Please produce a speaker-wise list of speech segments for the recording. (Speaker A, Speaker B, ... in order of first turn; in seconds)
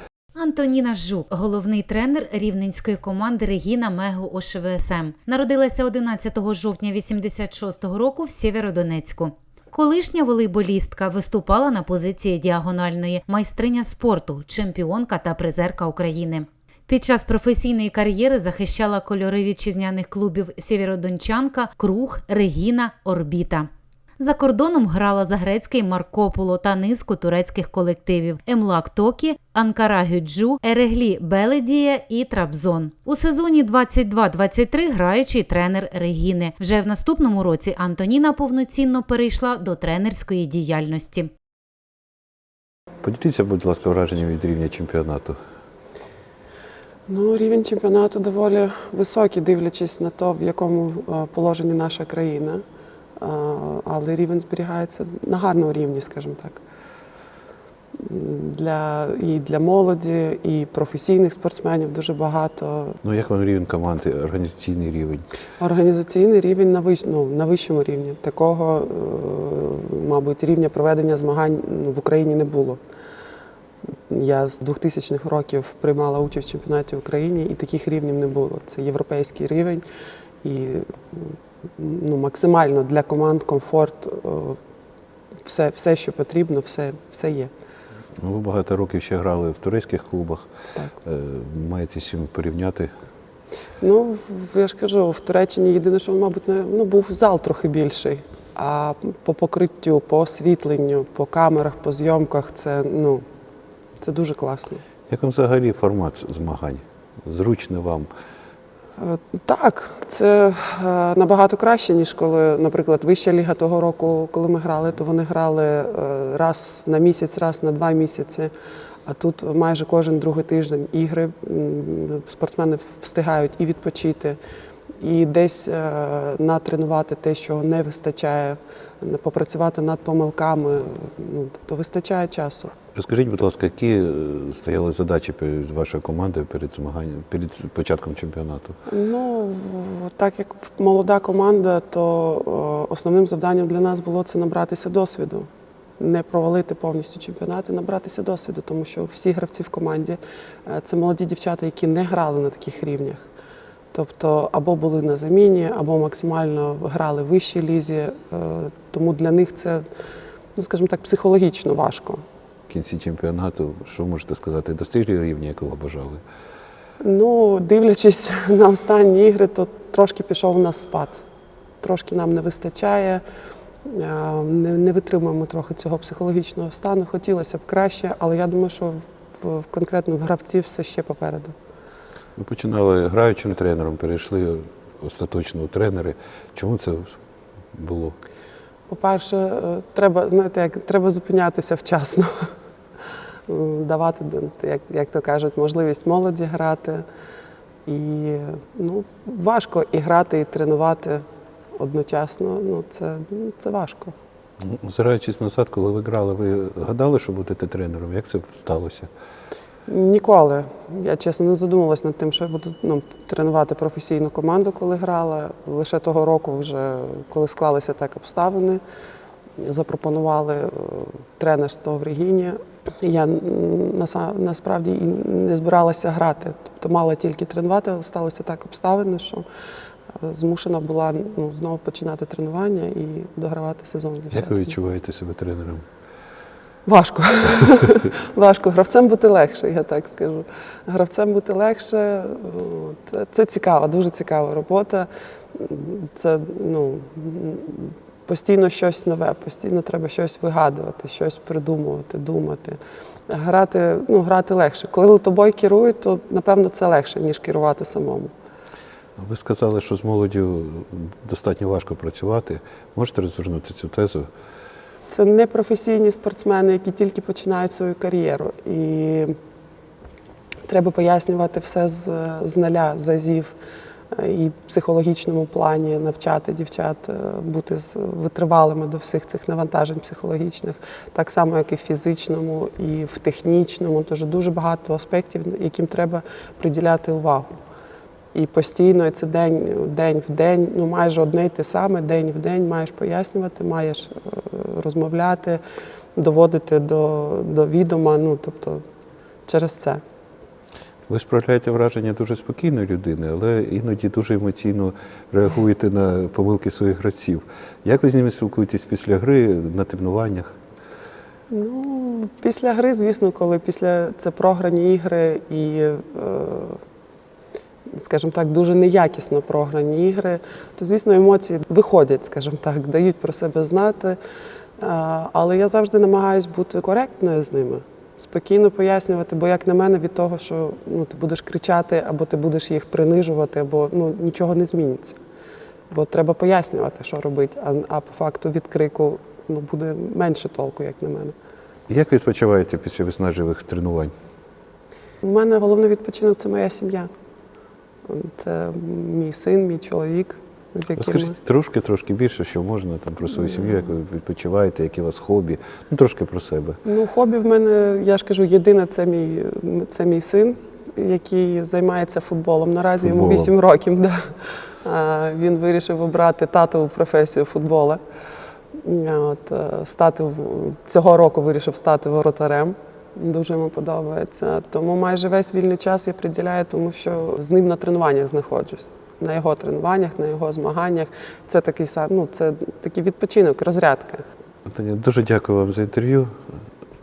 Speaker A: 0.3-23.7, 24.2-41.3
Speaker B: 43.0-45.4, 63.0-65.3, 88.2-90.5, 91.0-92.9, 105.1-108.1, 132.9-138.8, 162.7-166.2, 182.4-187.2, 187.7-188.2, 204.6-209.1, 234.3-235.8, 259.2-264.3, 301.1-310.5, 341.9-344.1, 351.0-356.8, 363.0-363.5, 384.7-386.4
Speaker C: 47.1-52.6, 53.2-56.6, 58.0-63.0, 65.6-72.8, 74.1-79.8, 80.4-84.6, 85.5-87.5, 93.8-103.2, 104.0-104.8, 109.0-118.5, 119.1-124.4, 125.0-132.7, 138.9-153.3, 153.9-159.8, 160.6-162.2, 167.0-171.2, 171.8-173.2, 173.8-181.5, 188.9-192.5, 193.5-197.0, 197.9-201.2, 201.8-204.1, 209.9-218.8, 219.6-229.4, 230.2-234.7, 236.9-258.3, 265.1-269.4, 270.7-273.6, 274.1-287.5, 288.3-295.6, 296.2-298.8, 299.5-300.0, 311.5-316.8, 317.9-324.2, 324.8-335.2, 335.9-341.4, 345.2-347.1, 348.1-351.4, 356.9-368.0, 368.8-384.2